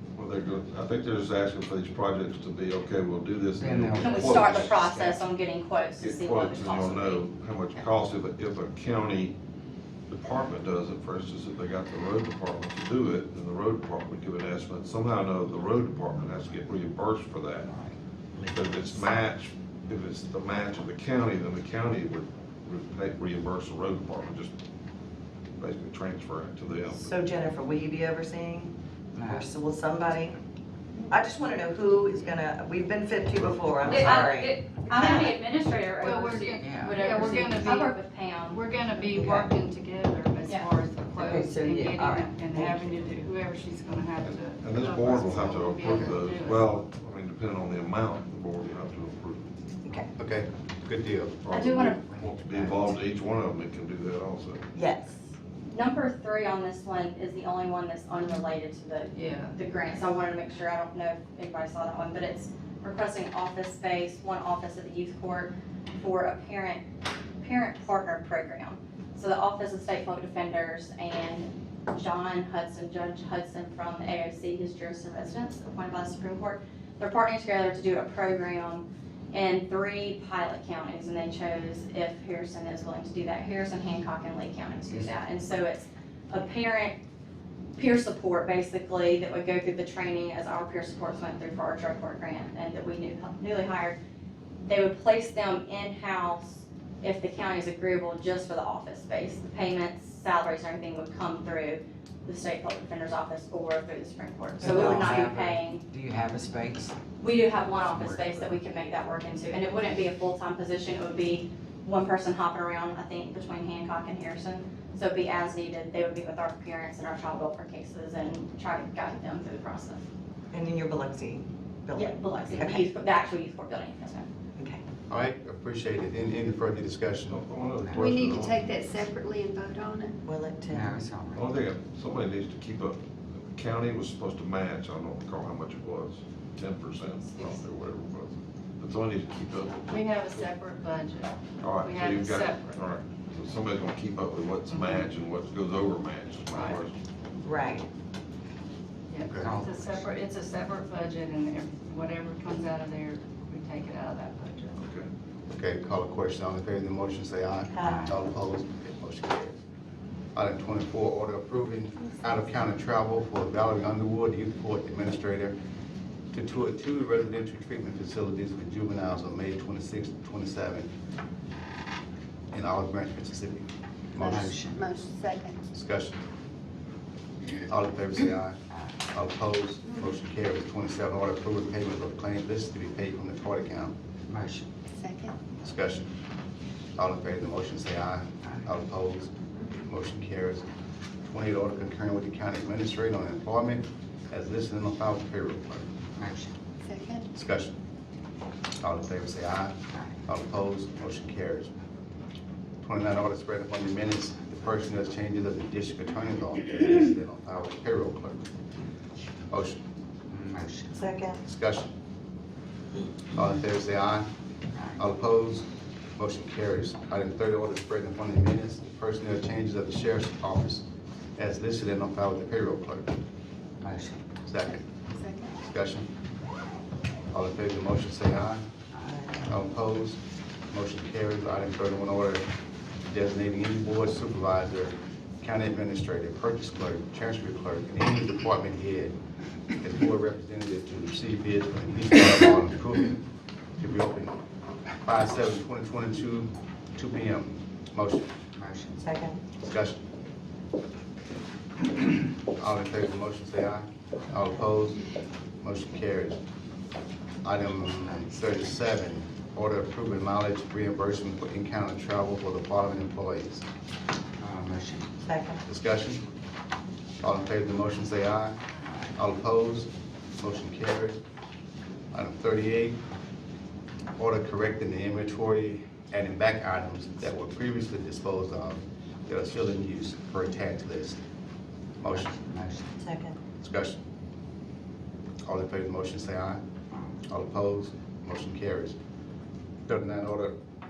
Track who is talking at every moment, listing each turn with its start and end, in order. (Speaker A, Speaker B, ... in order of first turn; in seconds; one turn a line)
Speaker A: 0.2-4.9
Speaker B: 3.6-4.8
Speaker C: 4.0-7.2
Speaker A: 6.0-9.3
Speaker A: 10.1-17.8
Speaker A: 18.4-24.5
Speaker A: 25.6-27.1
Speaker D: 26.9-28.7
Speaker D: 29.2-30.4
Speaker D: 31.1-35.3
Speaker C: 33.9-38.6
Speaker E: 33.9-34.2
Speaker E: 36.0-46.8
Speaker B: 36.5-37.0
Speaker D: 39.0-39.5
Speaker D: 41.1-43.0
Speaker A: 44.2-49.5
Speaker D: 49.8-50.1
Speaker F: 50.2-51.4
Speaker A: 51.5-54.6
Speaker E: 51.5-52.0
Speaker D: 54.7-55.2
Speaker C: 55.7-66.8
Speaker E: 59.1-59.5
Speaker C: 67.4-87.0
Speaker C: 87.8-94.0
Speaker C: 94.6-105.8
Speaker B: 104.6-106.9
Speaker D: 104.6-105.2
Speaker C: 107.2-120.0
Speaker B: 108.0-108.5
Speaker D: 120.5-122.9
Speaker C: 121.9-124.3
Speaker D: 124.6-124.8
Speaker F: 125.1-127.4
Speaker A: 127.3-128.7
Speaker G: 127.9-130.1
Speaker D: 130.2-131.1
Speaker B: 130.7-131.4
Speaker A: 131.3-133.0
Speaker A: 133.5-140.5
Speaker E: 137.3-137.6
Speaker E: 139.9-142.9
Speaker A: 141.6-147.0
Speaker E: 144.7-145.1
Speaker E: 146.5-146.8
Speaker D: 147.4-147.9
Speaker E: 149.1-154.8
Speaker F: 149.2-149.6
Speaker B: 149.4-150.0
Speaker A: 154.8-155.1
Speaker F: 155.5-159.6
Speaker D: 157.7-158.1
Speaker F: 160.3-165.6
Speaker F: 166.3-170.9
Speaker F: 172.5-174.6
Speaker G: 174.2-175.6
Speaker B: 174.4-174.7
Speaker F: 175.7-176.2
Speaker F: 177.6-178.6
Speaker F: 179.1-183.9
Speaker B: 184.3-184.7
Speaker G: 185.0-185.3
Speaker F: 185.6-186.1
Speaker F: 187.0-189.3
Speaker F: 189.8-190.7
Speaker F: 191.3-195.9
Speaker B: 196.2-196.5
Speaker G: 196.8-197.3
Speaker F: 197.3-197.8
Speaker F: 198.8-201.8
Speaker F: 202.8-208.5
Speaker F: 209.5-209.8
Speaker B: 210.4-210.9
Speaker D: 210.9-211.4
Speaker F: 211.4-211.9
Speaker F: 213.3-214.3
Speaker F: 214.9-220.8
Speaker F: 221.4-223.1
Speaker B: 223.8-224.2
Speaker F: 224.4-224.8
Speaker G: 225.1-225.5
Speaker F: 225.6-226.1
Speaker F: 227.3-228.6
Speaker D: 229.0-229.4
Speaker F: 229.4-232.4
Speaker F: 233.1-239.1
Speaker F: 239.8-243.2
Speaker F: 243.8-244.4
Speaker F: 245.0-248.3
Speaker B: 248.6-248.9
Speaker D: 249.0-249.4
Speaker F: 249.6-250.0
Speaker F: 252.6-255.0
Speaker F: 255.6-256.4
Speaker F: 257.4-263.6
Speaker B: 264.4-265.1
Speaker D: 265.2-265.6
Speaker F: 265.6-266.2
Speaker F: 267.2-268.6
Speaker F: 269.1-271.2
Speaker F: 272.1-273.0
Speaker F: 274.1-281.2
Speaker F: 282.0-282.5
Speaker D: 283.0-283.4
Speaker F: 283.6-284.0
Speaker F: 285.4-286.6
Speaker F: 287.3-289.0
Speaker F: 289.9-290.6